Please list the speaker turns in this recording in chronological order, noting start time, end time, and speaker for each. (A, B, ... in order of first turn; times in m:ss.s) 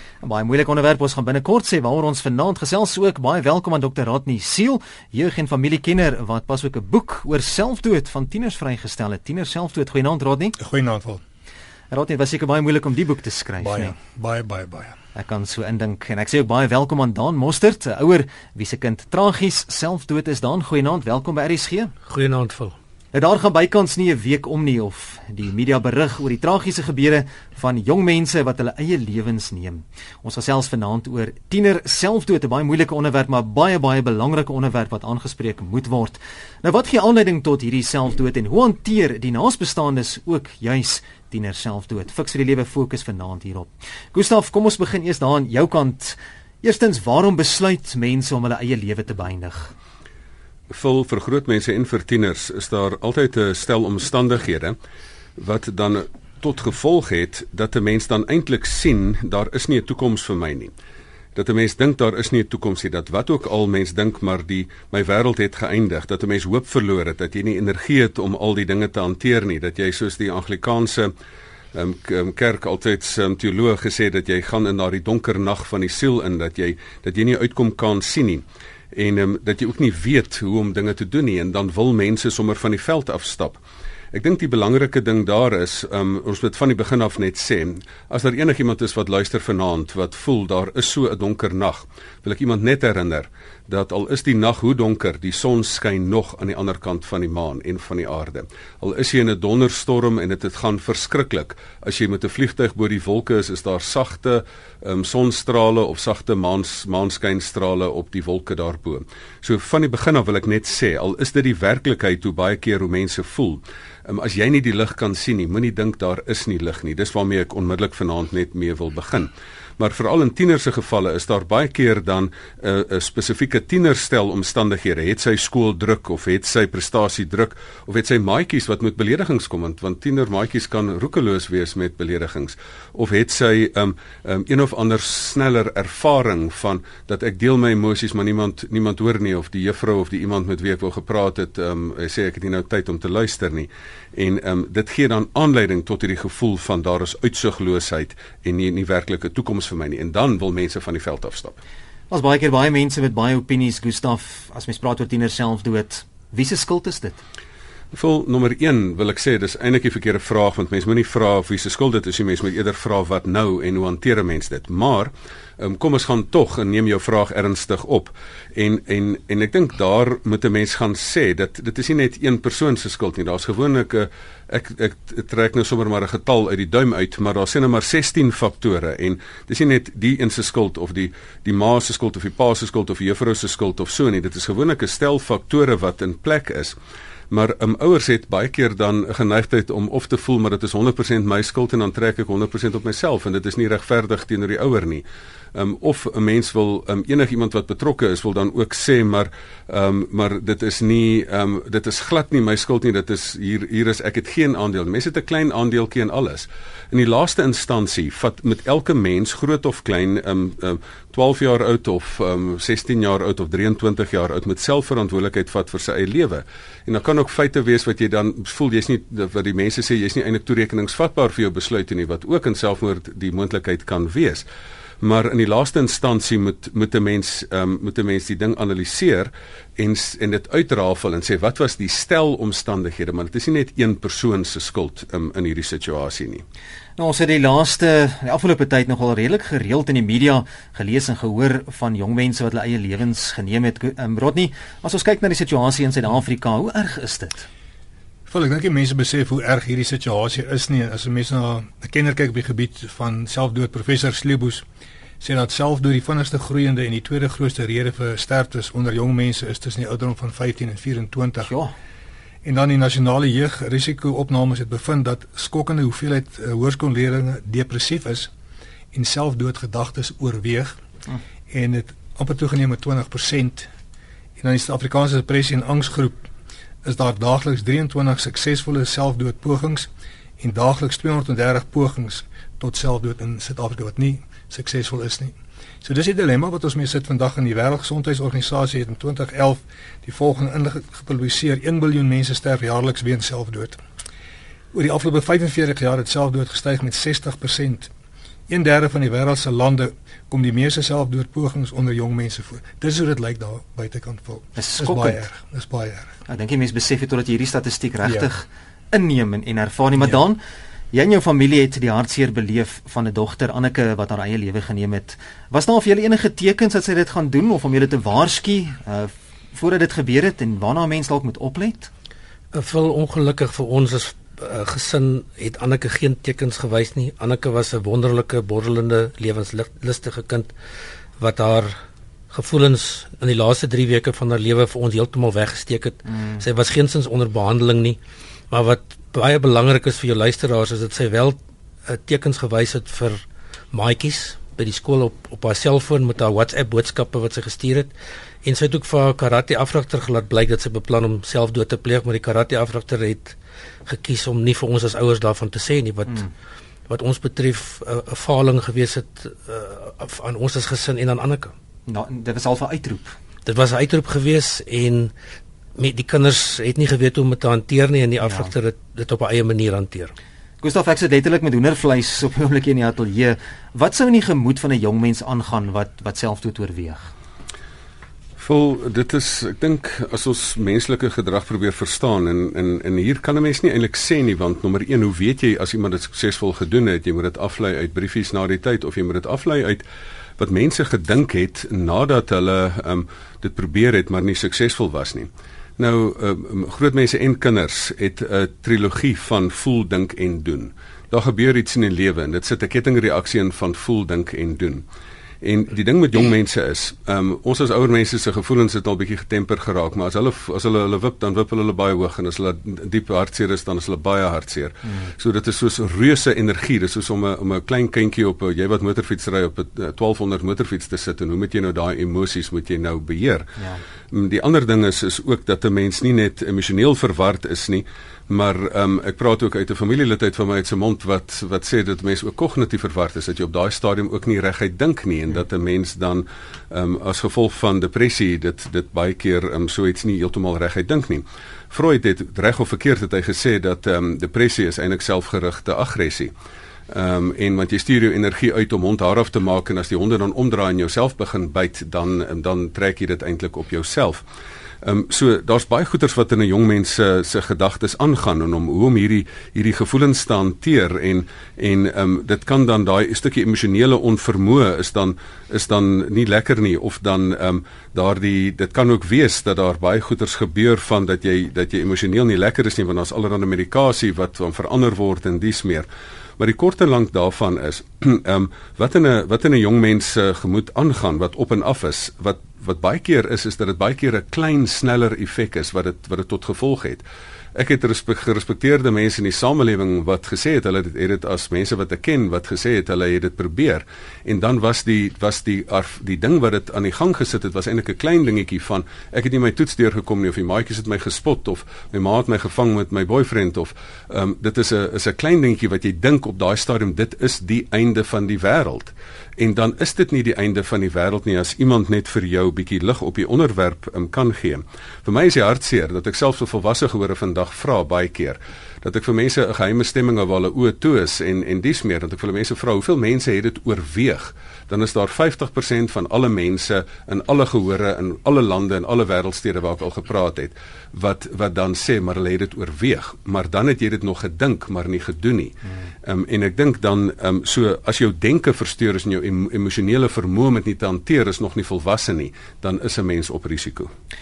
0:00.2-0:10.6 A
0:10.6-0:11.2 B
0:11.9-0:14.0 A
0:13.6-0:15.0 B
0:15.1-0:21.9 A
0:22.0-0:22.7 C
0:23.1-0:49.7 A
0:50.7-0:54.8 D
0:55.4-1:00.7 D
1:01.3-1:11.1 D
1:11.7-1:23.6 D
1:24.1-2:31.6 D
2:32.1-2:37.2 A
2:37.9-3:06.8 D
3:07.3-3:44.4 D
3:45.0-3:56.4 D
3:57.0-4:07.5 A
4:08.3-4:14.6 B
4:15.2-4:21.5 B
4:21.4-4:21.7 A
4:22.4-4:28.3 B
4:28.9-4:30.8 B
4:31.5-4:33.7 B
4:34.4-4:36.3 B
4:36.8-4:53.8 B
4:54.7-4:57.9 B
4:58.5-5:06.2 B
5:04.6-5:05.2 A
5:06.3-5:10.4 A
5:10.9-5:21.9 A
5:22.5-5:30.5 C
5:31.2-5:31.7 C
5:32.3-5:38.0 C
5:38.5-5:47.9 C
5:48.4-5:56.3 C
5:56.9-6:01.5 C
6:01.9-6:03.2 A
6:03.4-6:05.1 C
6:05.8-6:10.1 C
6:08.2-6:08.5 A
6:10.6-6:17.1 A
6:18.4-6:29.8 D
6:30.4-6:44.8 D
6:45.4-7:03.5 D
7:04.1-7:26.3 D
7:26.9-7:34.2 D
7:34.8-7:55.9 D
7:56.4-8:07.0 D
8:07.5-9:03.9 D